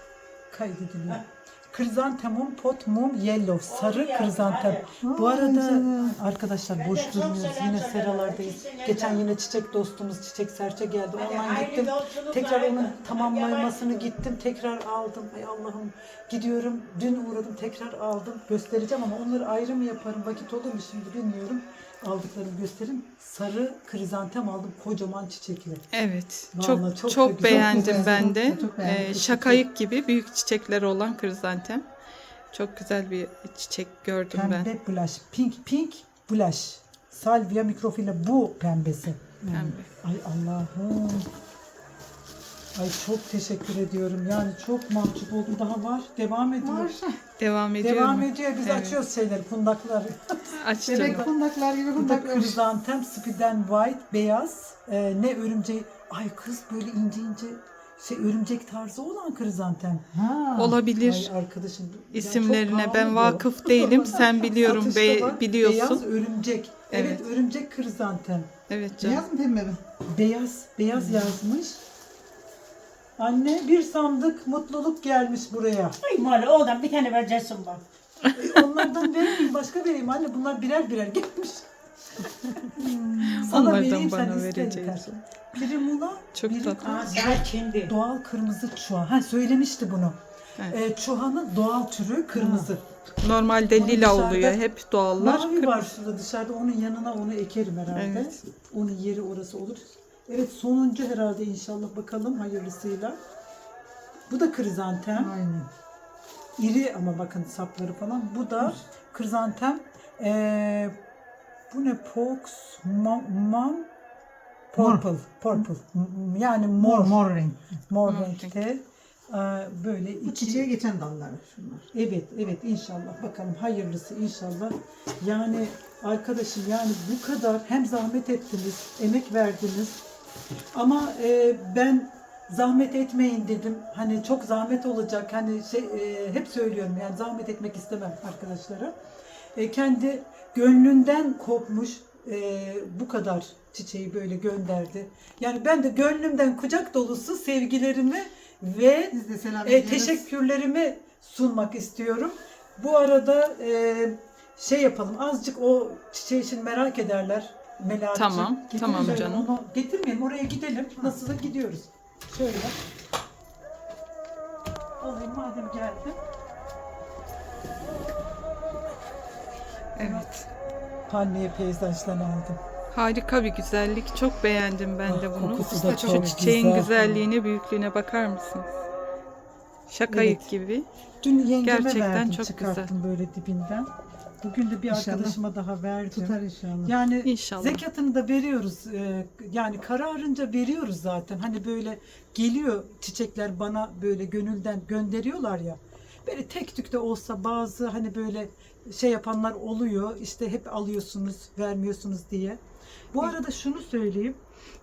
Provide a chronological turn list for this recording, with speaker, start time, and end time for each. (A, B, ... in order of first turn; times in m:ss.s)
0:00.5-0:25.8 A
0:03.7-0:04.9 B
0:05.0-0:06.2 C
0:06.8-0:09.2 B
0:11.1-0:14.1 B
0:25.9-0:31.8 D
0:26.5-0:28.3 A
0:27.4-0:29.6 C
0:32.5-0:34.7 D
0:34.3-0:39.3 A
0:39.4-0:39.8 C
0:39.5-0:39.9 D
0:40.0-0:41.3 A
0:42.8-0:46.9 A
0:46.6-0:47.2 C
0:47.4-0:49.0 D
0:47.8-0:51.2 A
0:50.6-0:51.3 D
0:50.8-0:52.6 C
0:52.0-1:00.0 A
1:00.1-1:00.8 C
1:00.6-1:01.3 D
1:01.0-1:08.5 A
1:02.1-1:06.0 D
1:06.9-1:07.2 D
1:08.7-1:09.2 D
1:09.0-1:09.8 C
1:10.1-1:11.8 A
1:10.9-1:11.3 C
1:13.2-1:16.0 A
1:16.0-1:17.8 B
1:18.2-1:18.6 D
1:18.4-1:21.7 A
1:22.2-1:22.7 A
1:22.8-1:23.7 C
1:23.2-1:25.2 D
1:23.3-1:30.2 A
1:26.4-1:26.9 D
1:26.8-1:27.9 B
1:30.7-1:32.8 A
1:32.3-1:32.7 C
1:33.2-1:35.9 D
1:33.7-1:34.6 A
1:35.2-1:43.2 A
1:37.9-1:38.4 D
1:44.3-1:45.4 A
1:45.2-1:45.7 C
1:46.6-1:50.9 A
1:51.7-1:53.9 A
1:54.7-1:57.2 A
1:54.8-1:55.0 C
1:56.8-1:57.6 C
1:57.9-2:00.7 A
1:58.0-1:58.5 D
2:00.2-2:01.9 C
2:01.9-2:10.0 A
2:10.7-2:18.9 A
2:19.5-2:42.8 A
2:29.1-2:30.2 C
2:38.1-2:39.5 D
2:38.9-2:39.2 C
2:45.0-2:46.2 A
2:50.0-2:50.4 D
2:50.0-2:50.3 A
2:51.1-2:52.6 A
2:52.9-2:58.7 D
2:55.0-2:57.2 A
2:59.9-3:00.9 D
3:00.1-3:00.4 A
3:01.2-3:03.9 A
3:01.6-3:02.9 D
3:04.4-3:22.6 A
3:04.9-3:05.4 C
3:06.1-3:06.9 C
3:07.2-3:07.8 D
3:23.1-3:24.4 A